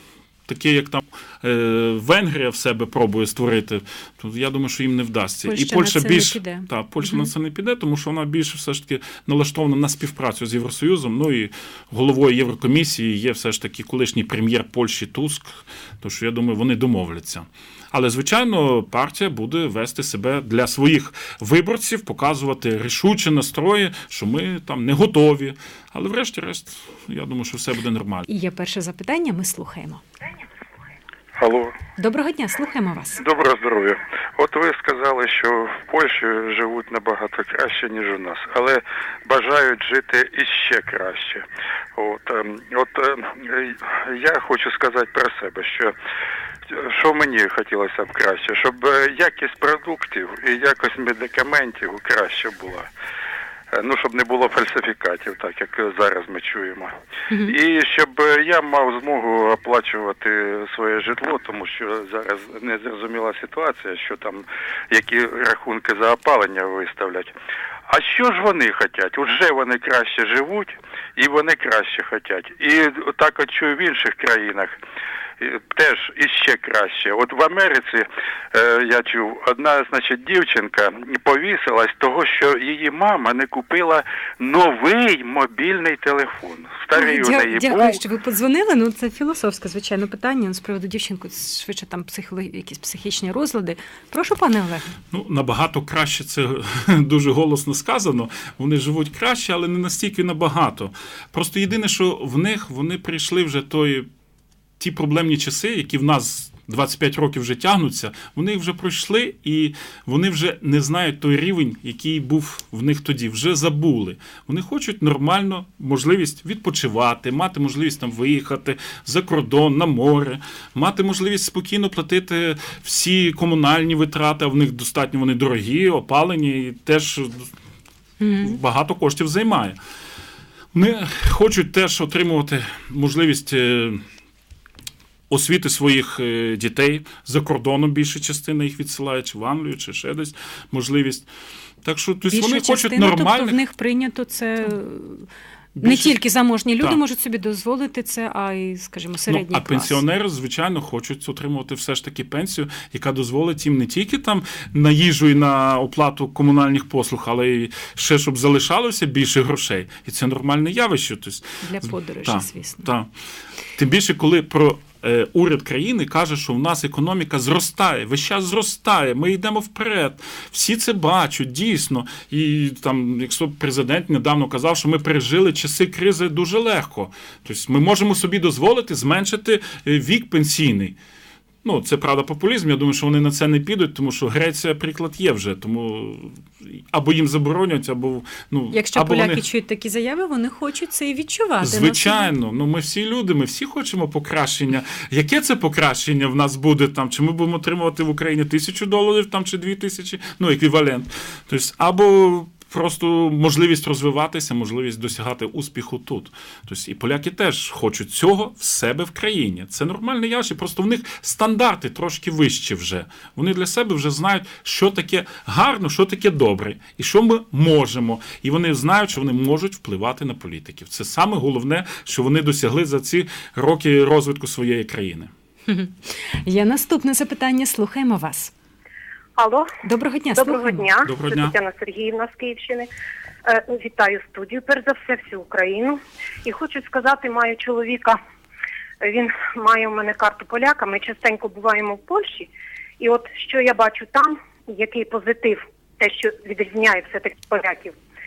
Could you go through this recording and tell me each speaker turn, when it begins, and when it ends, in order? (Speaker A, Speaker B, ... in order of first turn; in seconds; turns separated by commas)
Speaker A: 0.5-28.2, Speaker B: 5.5-7.3, Speaker B: 28.3-30.0, Speaker C: 31.4-31.7, Speaker B: 32.0-33.2, Speaker C: 33.2-45.9, Speaker C: 46.7-52.9, Speaker C: 53.7-56.9, Speaker B: 57.3-57.6, Speaker C: 57.4-67.3, Speaker C: 67.9-74.7, Speaker C: 75.4-88.0, Speaker B: 86.9-94.9, Speaker A: 95.1-104.1, Speaker A: 104.8-127.5, Speaker B: 128.2-128.6, Speaker A: 128.4-129.8, Speaker A: 130.7-134.0, Speaker A: 135.3-141.3, Speaker A: 141.8-143.6, Speaker B: 142.3-145.3, Speaker A: 145.8-146.2, Speaker B: 145.8-150.0, Speaker A: 149.3-163.1, Speaker B: 161.6-162.9, Speaker A: 163.7-181.0, Speaker A: 181.6-189.4, Speaker B: 188.7-192.3, Speaker A: 191.6-225.3, Speaker B: 225.7-228.5, Speaker D: 229.4-229.7, Speaker B: 229.8-230.9, Speaker D: 230.4-232.9, Speaker A: 231.0-231.6, Speaker D: 233.4-238.2, Speaker D: 239.0-247.9